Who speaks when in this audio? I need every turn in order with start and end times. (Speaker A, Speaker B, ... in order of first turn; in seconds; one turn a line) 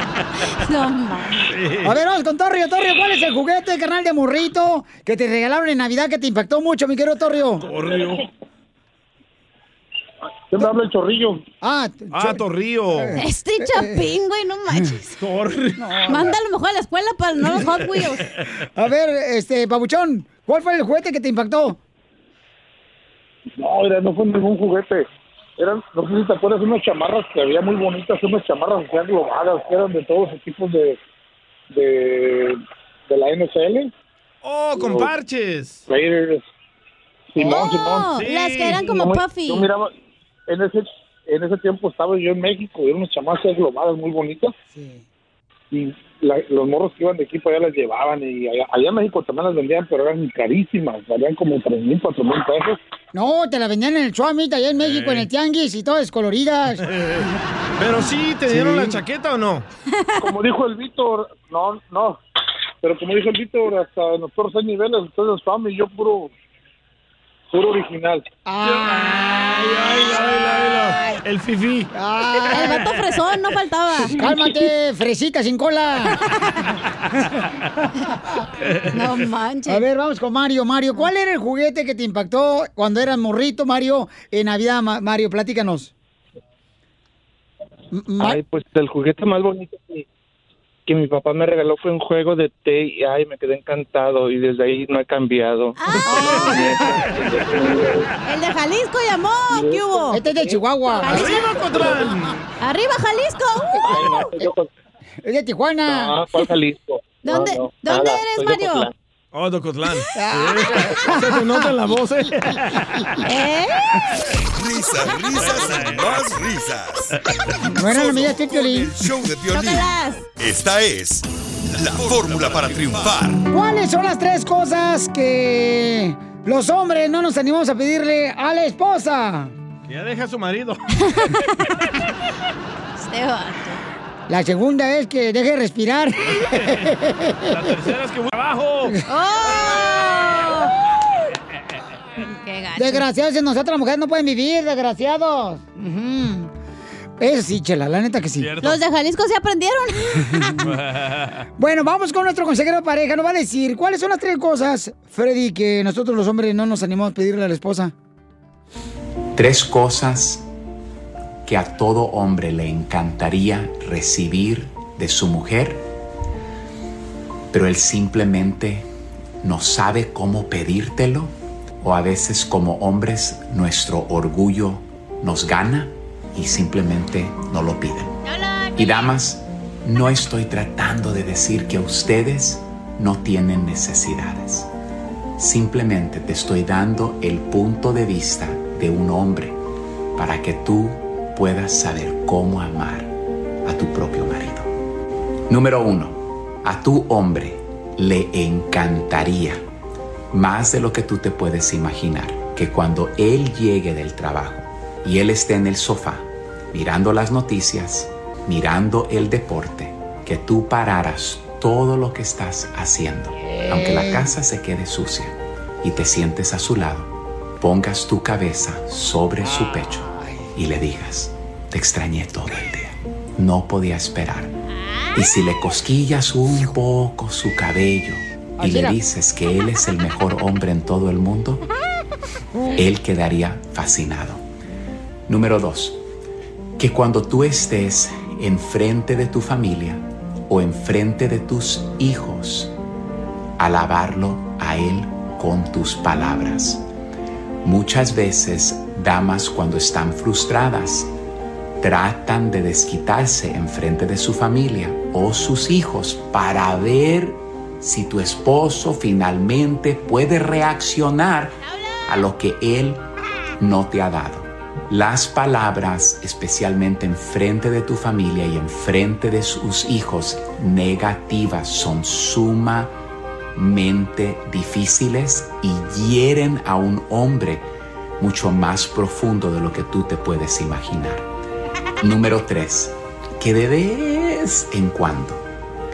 Speaker A: 0.4-1.5
Speaker B: 1.5-1.9
Speaker C: 1.8-7.7
Speaker B: 7.6-8.2
Speaker D: 10.5-11.4
Speaker C: 11.6-14.1
Speaker B: 12.1-13.2
Speaker A: 13.2-15.2
Speaker B: 15.2-15.9
Speaker C: 15.8-16.4
Speaker A: 16.1-18.3
Speaker C: 18.7-21.8
Speaker D: 23.6-25.1
Speaker D: 25.6-31.0
Speaker D: 31.7-33.9
Speaker B: 34.4-35.8
Speaker D: 35.9-36.4
Speaker D: 37.3-38.1
Speaker A: 37.4-39.7
Speaker B: 38.1-38.8
Speaker D: 38.9-39.9
Speaker D: 40.5-44.5
Speaker C: 44.7-45.0
Speaker D: 45.7-52.8
Speaker C: 53.1-56.8
Speaker B: 54.8-55.3
Speaker B: 56.9-57.2
Speaker B: 57.8-59.6
Speaker C: 58.5-59.0
Speaker D: 60.2-62.2
Speaker D: 62.8-66.3
Speaker D: 67.5-68.2
Speaker C: 68.5-70.9
Speaker B: 68.6-71.9
Speaker C: 71.9-72.9
Speaker A: 72.5-74.3
Speaker C: 74.0-76.2
Speaker A: 76.1-76.7
Speaker B: 78.6-79.0
Speaker A: 78.9-79.8
Speaker C: 79.7-85.9
Speaker C: 87.9-88.4
Speaker E: 88.2-90.0
Speaker E: 90.9-97.9
Speaker A: 95.8-96.7
Speaker C: 96.0-97.0
Speaker A: 98.2-100.2
Speaker C: 100.1-101.4
Speaker A: 100.9-101.5
Speaker B: 101.1-102.4
Speaker A: 102.6-104.0
Speaker C: 103.9-104.5
Speaker E: 104.0-104.6
Speaker C: 105.2-106.2
Speaker E: 105.9-108.9
Speaker A: 107.2-108.9
Speaker B: 109.3-113.1
Speaker C: 110.1-111.7
Speaker A: 113.2-113.8
Speaker F: 114.5-117.1
Speaker B: 115.4-116.2
Speaker C: 117.7-119.0
Speaker F: 117.9-123.5
Speaker A: 119.5-120.2
Speaker C: 123.5-129.5
Speaker B: 129.9-130.8
Speaker A: 131.0-132.0
Speaker A: 133.0-133.8
Speaker C: 134.3-137.7
Speaker B: 137.5-139.0
Speaker A: 139.1-140.7
Speaker A: 142.2-143.1
Speaker C: 142.8-146.5
Speaker C: 147.2-148.5
Speaker B: 148.4-148.8
Speaker A: 148.6-150.5
Speaker C: 150.2-150.7
Speaker B: 150.6-151.4
Speaker C: 151.6-157.9
Speaker G: 159.3-160.4
Speaker G: 161.4-165.9
Speaker G: 167.5-168.9
Speaker G: 169.4-178.1
Speaker A: 178.2-179.1
Speaker G: 178.8-184.7
Speaker G: 185.4-189.6
Speaker G: 190.2-193.1
Speaker G: 193.6-194.7
Speaker G: 195.5-199.6
Speaker G: 200.3-224.5
Speaker C: 213.4-214.4
Speaker C: 219.4-220.4
Speaker A: 224.8-225.1
Speaker G: 225.1-231.6
Speaker C: 228.6-229.0
Speaker G: 232.7-234.4
Speaker G: 235.3-236.0
Speaker G: 236.8-242.7
Speaker G: 243.6-246.8
Speaker G: 247.6-251.1
Speaker G: 251.8-263.0
Speaker A: 261.7-262.0
Speaker G: 263.6-272.9
Speaker G: 273.6-281.2
Speaker G: 282.0-285.4